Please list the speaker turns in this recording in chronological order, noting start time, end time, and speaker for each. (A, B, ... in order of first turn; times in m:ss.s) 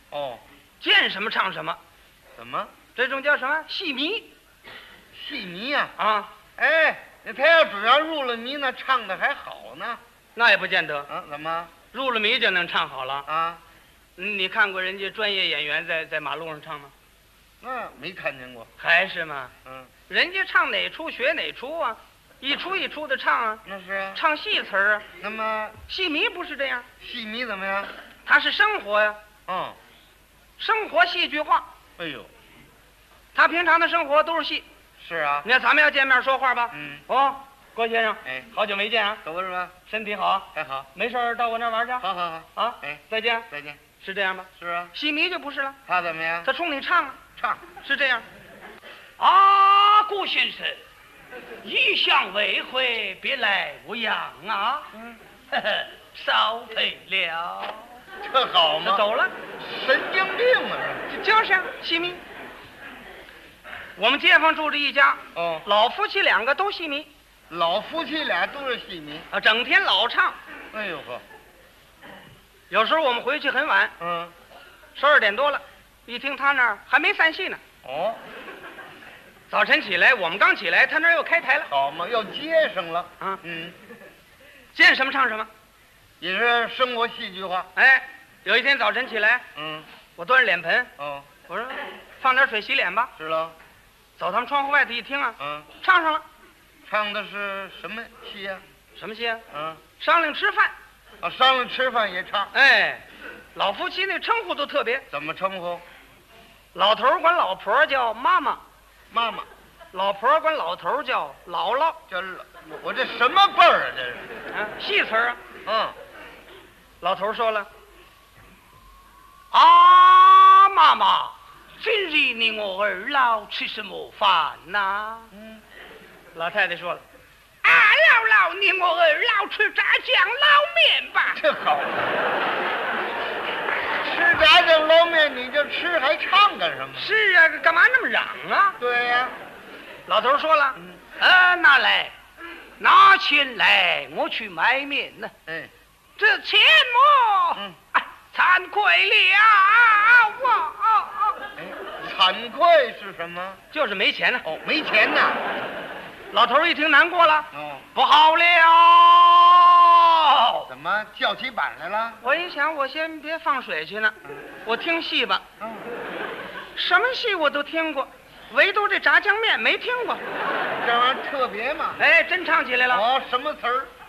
0:00.1-0:00.4 A
0:00.8-0:01.8 B
0:02.4-0:02.7 A
0:02.9-0:04.3 B
0:05.1-0:05.9 A
0:06.0-0:06.3 B
0:06.6-0:10.0 A
0:10.4-0:11.1 B
0:11.1-0:11.7 A
0:11.9-0:13.3 B
0:13.3-0:13.6 A
0:14.2-0:16.9 B
0:17.6-0:18.7 A
0:18.8-0:19.5 B
0:19.6-0:19.9 A
0:20.1-0:23.6 B
0:23.6-0:24.2 A
0:24.2-0:25.1 B
0:25.2-0:25.8 A
0:25.9-0:26.9 B
0:27.0-0:27.9 A
0:28.2-0:29.2 B
0:29.5-0:29.8 A
0:30.6-0:31.7 B
0:32.0-0:32.3 A
0:33.3-0:34.7 B
0:35.0-0:35.5 A
0:35.4-0:39.2 B
0:36.7-0:37.0 A
0:38.2-0:38.5 A
0:39.2-0:39.8 A
0:39.9-0:42.0 B
0:40.5-0:40.9 A
0:42.0-0:43.8 A
0:42.6-0:43.5 B
0:44.0-0:45.8 B
0:44.6-0:44.9 A
0:45.9-0:46.5 A
0:46.4-0:47.2 B
0:47.4-0:47.7 A
0:47.7-0:48.2 B
0:49.2-0:50.8 B
0:51.6-0:58.0 B
0:58.2-0:59.0 A
0:58.8-0:59.3 B
0:59.6-1:01.1 A
1:01.1-1:02.2 B
1:04.0-1:07.1 B
1:05.4-1:05.6 A
1:07.5-1:09.3 A
1:09.3-1:10.4 B
1:10.7-1:11.2 A
1:12.7-1:13.9 B
1:14.0-1:14.3 A
1:15.0-1:17.6 B
1:17.8-1:18.2 A
1:19.5-1:21.7 B
1:21.7-1:23.8 A
1:24.7-1:25.5 B
1:26.2-1:27.7 A
1:27.8-1:29.4 B
1:29.6-1:29.9 A
1:30.2-1:30.9 B
1:31.0-1:31.3 A
1:31.5-1:33.1 B
1:33.2-1:33.6 A
1:34.2-1:36.2 B
1:35.4-1:35.7 A
1:36.9-1:38.6 A
1:39.0-1:39.4 B
1:39.5-1:39.8 A
1:40.0-1:40.7 B
1:41.2-1:42.5 A
1:42.5-1:43.0 B
1:43.6-1:45.1 B
1:45.1-1:45.8 A
1:46.7-1:48.6 B
1:49.1-1:49.5 A
1:49.9-1:52.0 B
1:52.1-1:54.3 A
1:54.5-1:55.4 B
1:55.6-1:56.0 A
1:57.0-1:57.7 B
1:59.5-2:05.3 B
2:05.3-2:05.6 A
2:06.4-2:07.0 B
2:07.6-2:11.4 B
2:11.3-2:12.2 A
2:14.0-2:17.2 A
2:17.0-2:18.8 B
2:18.8-2:19.4 A
2:20.1-2:22.2 B
2:22.8-2:25.3 B
2:25.5-2:25.7 A
2:26.2-2:31.4 B
2:31.6-2:33.6 A
2:33.7-2:34.4 B
2:34.4-2:35.4 A
2:36.3-2:40.7 B
2:37.5-2:37.9 A
2:40.7-2:42.2 A
2:42.2-2:45.4 B
2:45.6-2:45.9 A
2:46.8-2:50.2 B
2:50.8-2:52.0 A
2:52.0-2:53.0 B
2:52.9-2:53.9 A